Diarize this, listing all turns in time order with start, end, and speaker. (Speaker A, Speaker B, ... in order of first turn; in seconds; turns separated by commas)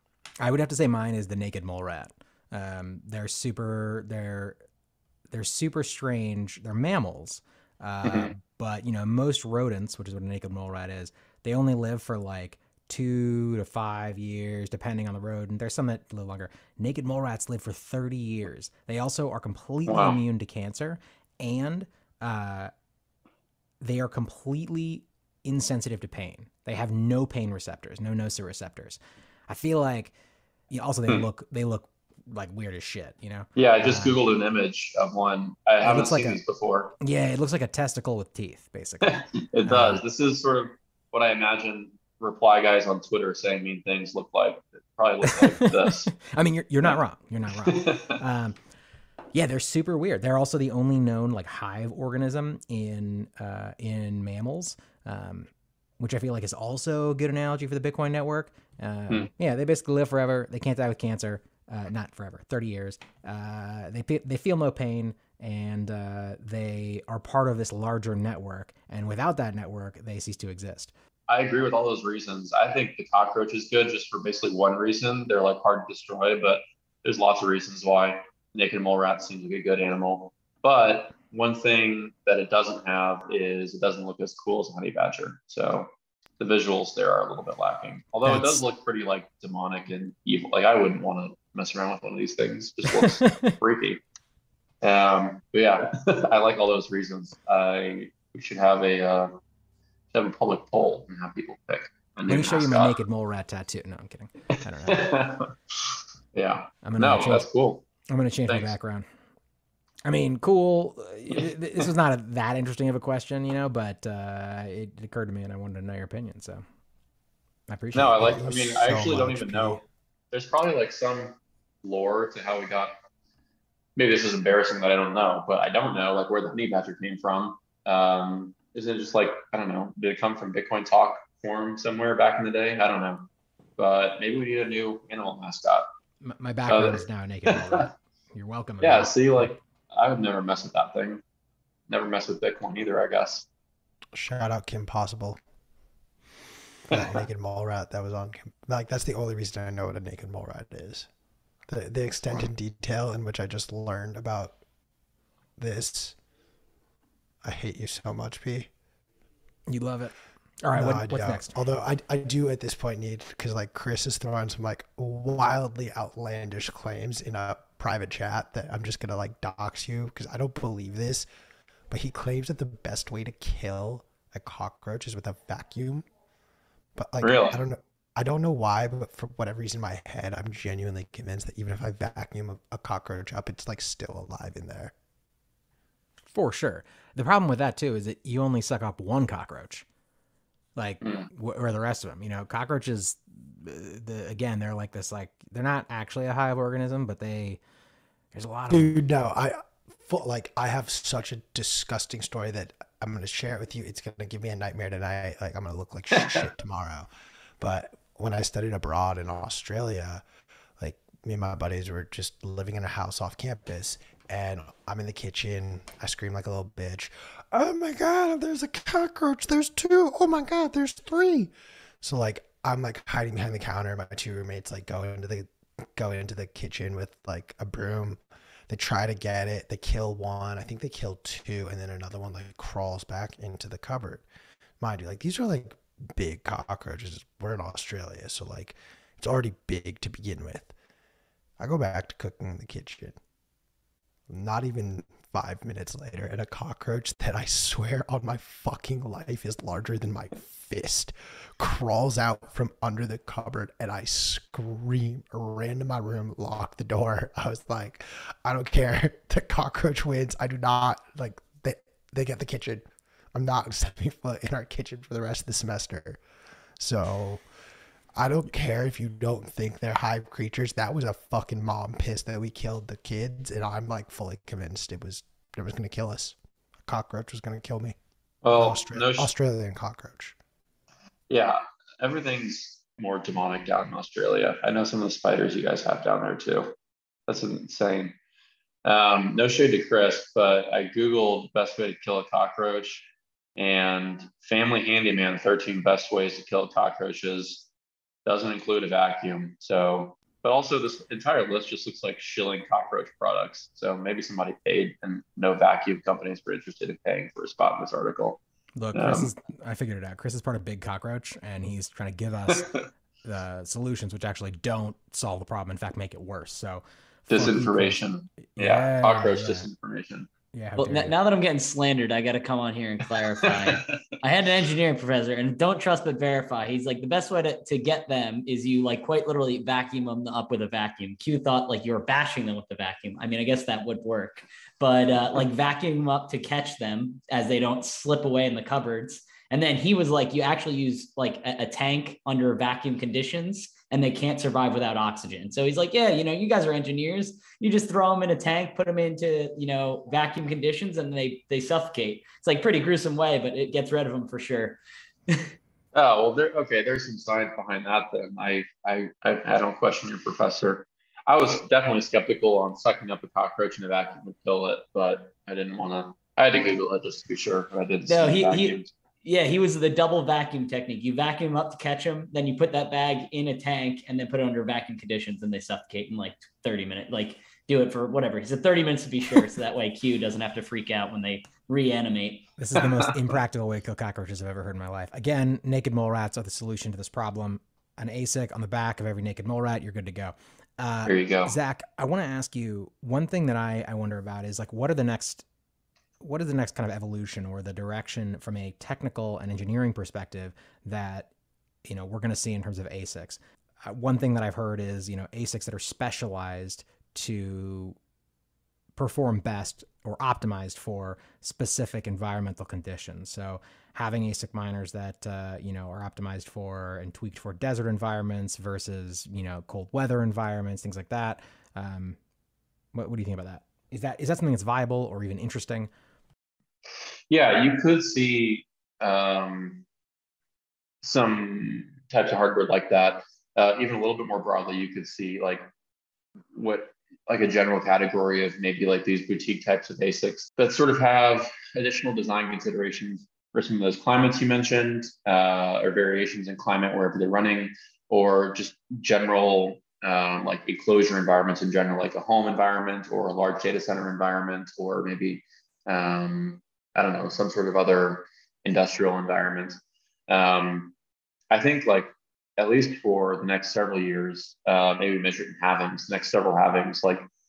Speaker A: 0.4-4.6, Speaker A: 5.3-22.7, Speaker B: 8.0-8.3, Speaker B: 19.9-20.2, Speaker A: 23.8-30.1, Speaker A: 30.7-34.2, Speaker B: 33.6-37.0, Speaker A: 35.8-36.4, Speaker A: 37.0-40.0, Speaker B: 39.0-46.1, Speaker A: 45.3-48.6, Speaker B: 47.7-48.2, Speaker A: 49.3-55.5, Speaker A: 56.0-70.9, Speaker B: 71.3-94.0, Speaker A: 88.2-88.6, Speaker B: 94.8-99.3, Speaker B: 100.1-103.0, Speaker A: 102.3-105.2, Speaker B: 104.6-107.9, Speaker A: 106.8-107.5, Speaker A: 108.1-109.1, Speaker B: 108.5-108.7, Speaker A: 110.0-116.6, Speaker A: 117.7-118.4, Speaker B: 117.9-123.0, Speaker C: 118.0-119.8, Speaker B: 124.0-135.9, Speaker A: 136.2-139.5, Speaker B: 136.7-137.9, Speaker B: 138.8-141.2, Speaker B: 141.9-143.5, Speaker C: 144.1-145.4, Speaker C: 146.9-151.1, Speaker B: 146.9-147.2, Speaker C: 151.7-154.6, Speaker C: 155.6-156.2, Speaker C: 157.4-158.7, Speaker A: 159.7-161.5, Speaker C: 160.7-171.3, Speaker C: 171.9-176.1, Speaker C: 177.0-184.9, Speaker B: 177.2-177.6, Speaker A: 186.3-189.8, Speaker A: 190.8-197.6, Speaker B: 191.0-191.3, Speaker A: 198.3-199.0, Speaker C: 198.7-207.1, Speaker B: 206.2-206.4, Speaker C: 207.6-210.2, Speaker C: 210.8-234.2, Speaker C: 234.8-240.7, Speaker C: 241.6-243.2, Speaker C: 244.3-266.2, Speaker C: 266.8-267.4, Speaker C: 268.2-278.0, Speaker B: 278.4-279.3, Speaker C: 278.5-280.4, Speaker B: 281.3-286.7, Speaker B: 287.3-288.2, Speaker B: 288.9-297.7, Speaker B: 298.3-308.4, Speaker A: 308.8-318.0, Speaker B: 308.9-309.3, Speaker B: 317.3-320.3, Speaker A: 318.6-319.7, Speaker A: 320.5-321.1, Speaker D: 320.8-354.8, Speaker B: 323.4-324.1, Speaker B: 355.9-368.9, Speaker D: 368.1-382.5, Speaker A: 382.6-395.4, Speaker B: 382.8-383.1, Speaker B: 391.1-391.5, Speaker A: 396.2-401.3, Speaker A: 401.9-408.0, Speaker A: 409.0-422.2, Speaker A: 422.9-425.9, Speaker B: 427.3-429.8, Speaker B: 431.0-435.7, Speaker B: 436.5-460.9, Speaker B: 461.5-467.3